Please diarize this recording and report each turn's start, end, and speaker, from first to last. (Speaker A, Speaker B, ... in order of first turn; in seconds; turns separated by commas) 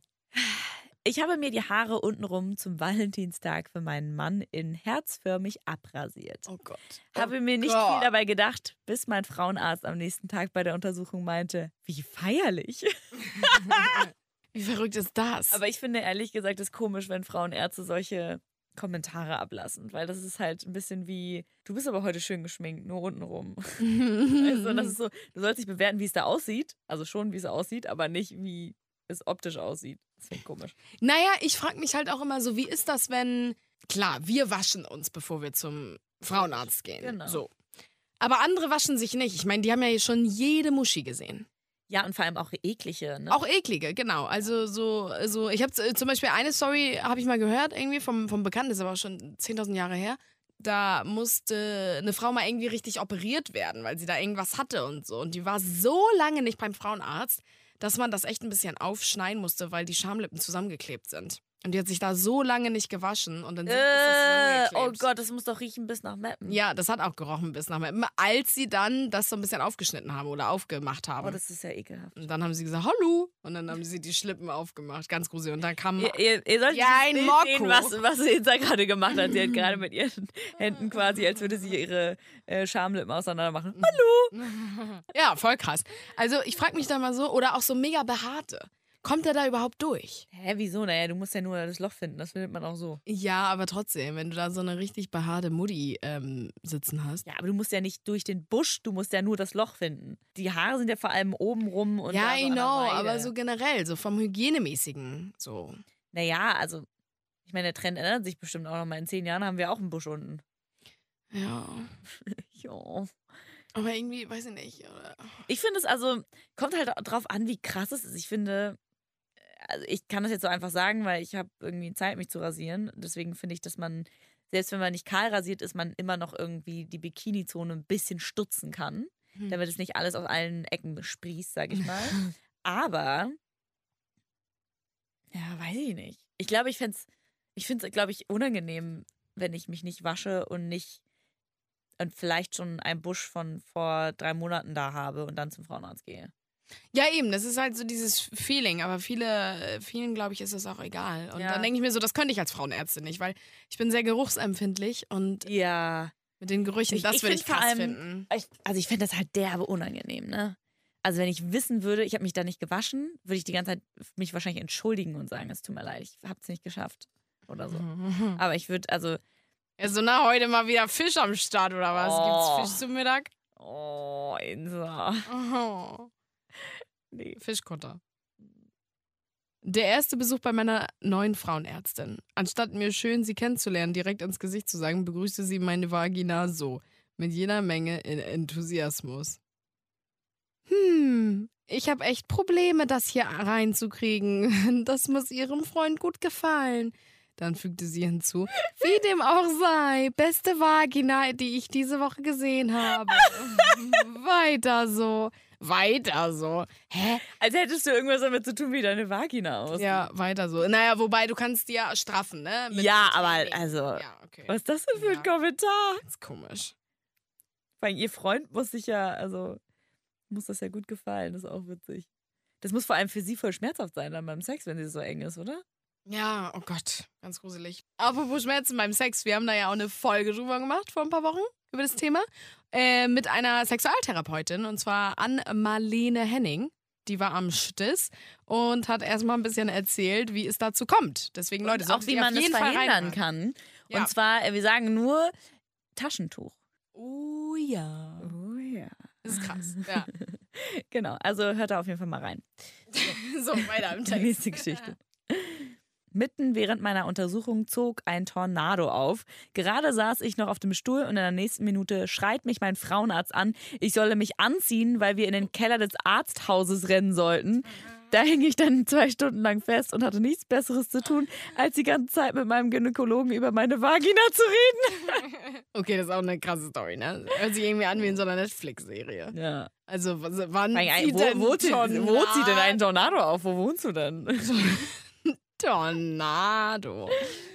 Speaker A: 0.3-6.5, Speaker B: 6.5-8.1, Speaker A: 7.1-14.1, Speaker B: 13.7-14.0, Speaker B: 14.5-15.6, Speaker A: 15.5-30.8, Speaker B: 23.8-25.0, Speaker B: 31.0-37.5, Speaker A: 37.0-37.5, Speaker B: 38.2-41.5, Speaker A: 41.9-43.4, Speaker B: 43.3-65.1, Speaker A: 63.7-66.6, Speaker B: 66.5-71.4, Speaker A: 71.2-72.2, Speaker B: 72.2-76.2, Speaker A: 76.0-84.4, Speaker B: 76.7-78.0, Speaker B: 83.8-90.3, Speaker A: 90.3-93.0, Speaker B: 93.1-97.2, Speaker A: 97.2-103.3, Speaker B: 102.1-105.8, Speaker A: 106.1-106.9, Speaker A: 107.5-110.4, Speaker B: 111.3-111.9, Speaker A: 112.3-113.1, Speaker B: 113.8-115.3, Speaker A: 115.5-118.8, Speaker A: 119.5-133.4, Speaker A: 135.3-141.0, Speaker A: 142.0-146.3, Speaker B: 146.9-155.5, Speaker A: 151.3-151.7, Speaker A: 155.4-156.1, Speaker B: 156.4-158.3, Speaker A: 156.9-167.8, Speaker B: 167.7-168.4, Speaker A: 168.4-169.2, Speaker B: 169.8-173.3, Speaker A: 171.9-172.8, Speaker A: 173.6-175.3, Speaker B: 175.3-176.1, Speaker A: 176.7-177.4, Speaker B: 177.4-178.0, Speaker B: 179.6-189.4, Speaker B: 190.7-207.2, Speaker A: 203.1-204.0, Speaker A: 207.3-210.1, Speaker B: 209.8-215.3, Speaker A: 212.7-216.0, Speaker B: 216.0-216.7, Speaker A: 217.8-219.6, Speaker A: 220.3-222.1, Speaker A: 222.6-225.6, Speaker B: 226.1-243.2, Speaker A: 241.6-245.3, Speaker A: 246.0-246.6, Speaker B: 246.9-248.3, Speaker A: 248.2-252.5, Speaker B: 249.2-250.1, Speaker B: 252.9-254.9, Speaker A: 253.6-275.2, Speaker B: 275.2-279.3, Speaker A: 279.3-279.7, Speaker B: 279.9-282.8, Speaker A: 280.7-284.7, Speaker B: 284.4-287.4